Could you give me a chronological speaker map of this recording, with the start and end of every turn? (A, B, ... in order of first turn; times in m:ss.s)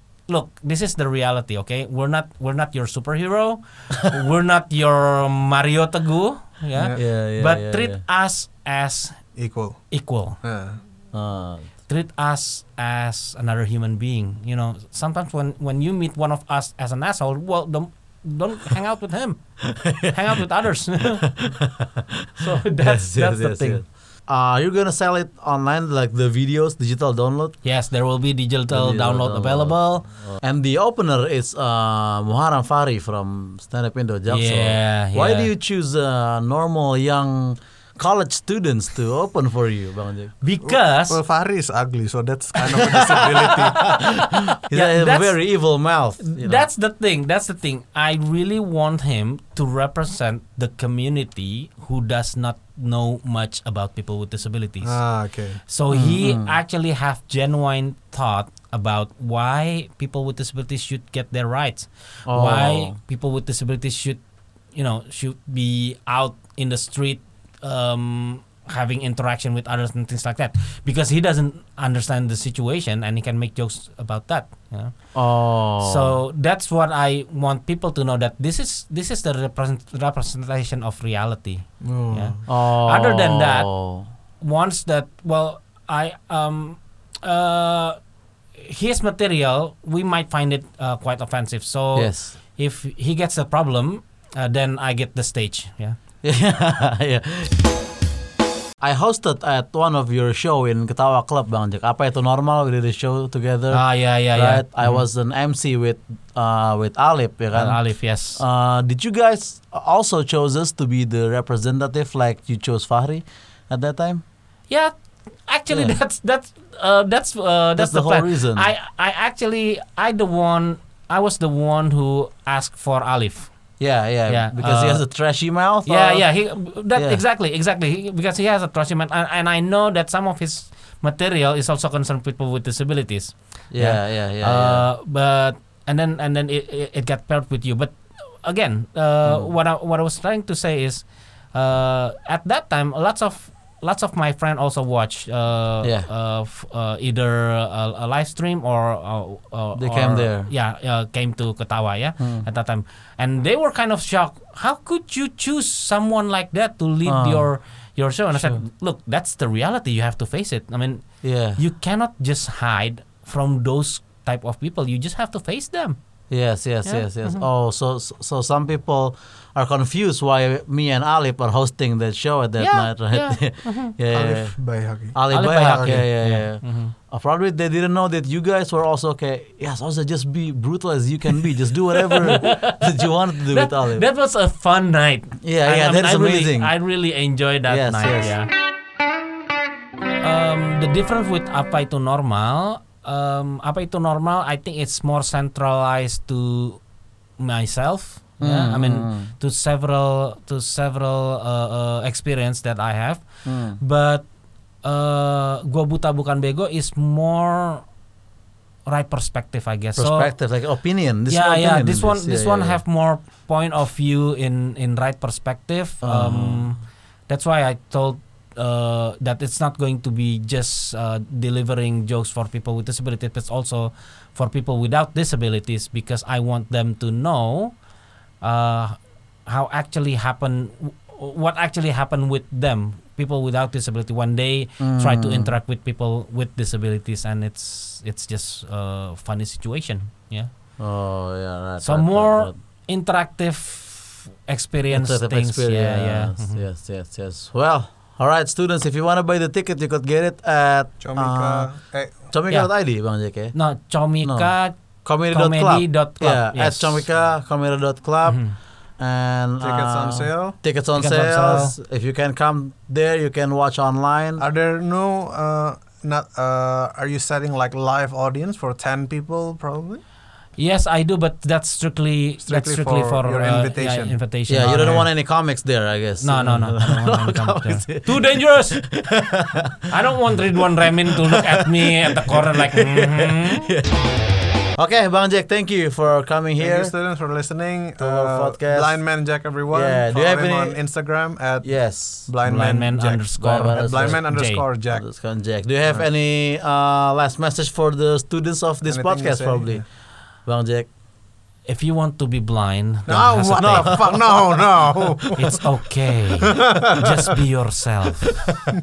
0:00.3-0:09.2 A
0:06.7-0:07.0 B
0:07.0-0:08.0 C
0:09.4-0:09.9 B
0:09.9-0:10.4 A
0:10.4-0:10.8 B
0:11.1-0:11.7 C
0:11.9-0:21.4 A
0:19.7-0:20.1 C
0:21.2-0:21.9 C
0:22.4-0:23.8 A
0:22.7-0:27.6 C
0:27.6-0:30.1 A
0:28.7-0:40.4 C
0:34.3-0:35.5 A
0:40.4-0:41.2 A
0:40.6-0:44.0 B
0:42.7-0:46.7 C
0:44.7-0:45.4 A
0:46.2-0:55.0 A
0:54.8-0:55.6 B
0:55.7-1:04.2 A
0:55.9-0:56.6 C
1:02.3-1:03.0 C
1:04.7-1:23.7 A
1:15.1-1:16.2 C
1:21.8-1:22.4 B
1:22.5-1:24.1 C
1:24.4-1:28.0 A
1:28.6-1:36.0 A
1:32.0-1:32.4 C
1:36.2-1:37.6 C
1:38.8-1:54.2 C
1:43.7-1:45.0 A
1:47.5-1:48.4 A
1:55.5-2:03.5 A
1:55.7-1:56.0 C
1:57.8-1:58.7 C
2:03.8-2:06.3 C
2:04.3-2:05.0 A
2:05.9-2:46.0 A
2:07.0-2:07.2 C
2:13.7-2:14.8 C
2:19.3-2:19.5 C
2:25.8-2:26.1 C
2:29.8-2:30.5 C
2:32.2-2:32.5 C
2:37.0-2:37.5 C
2:38.3-2:38.6 C
2:41.2-2:41.6 C
2:46.3-2:54.6 C
2:46.8-2:47.5 A
2:52.6-2:54.0 A
2:54.1-2:56.1 B
2:55.1-3:04.0 C
2:55.3-2:56.9 A
3:02.0-3:08.5 A
3:05.4-3:06.8 C
3:07.7-3:08.4 C
3:10.2-3:16.8 A
3:17.4-3:24.3 A
3:18.4-3:19.3 C
3:23.4-3:23.8 C
3:24.8-3:27.8 A
3:28.9-3:30.3 A
3:30.0-3:32.8 C
3:31.3-3:47.8 A
3:36.0-3:36.7 C
3:48.4-4:00.5 A
3:54.8-3:55.5 C
4:00.8-4:02.6 C
4:01.8-4:06.6 A
4:04.9-4:13.6 C
4:11.0-4:12.2 B
4:13.5-4:17.0 A
4:14.2-4:24.4 C
4:18.2-4:18.6 A
4:19.6-4:20.6 B
4:21.0-4:21.8 A
4:24.4-4:30.0 B
4:30.6-4:35.1 A
4:32.4-4:34.2 B
4:34.5-4:39.8 C
4:36.2-4:38.8 A
4:39.9-4:43.7 A
4:40.9-4:44.0 C
4:44.8-4:46.9 C
4:46.6-4:55.1 B
4:48.0-4:49.0 C
4:49.7-4:50.8 C
4:51.6-4:52.3 C
4:52.4-4:54.6 A
4:53.4-4:54.3 C
4:54.9-4:59.8 C
4:58.8-4:59.8 B
5:00.4-5:00.9 C
5:01.7-5:04.0 A
5:03.1-5:05.6 B
5:03.5-5:05.6 C
5:05.4-5:08.5 A
5:06.5-5:07.3 B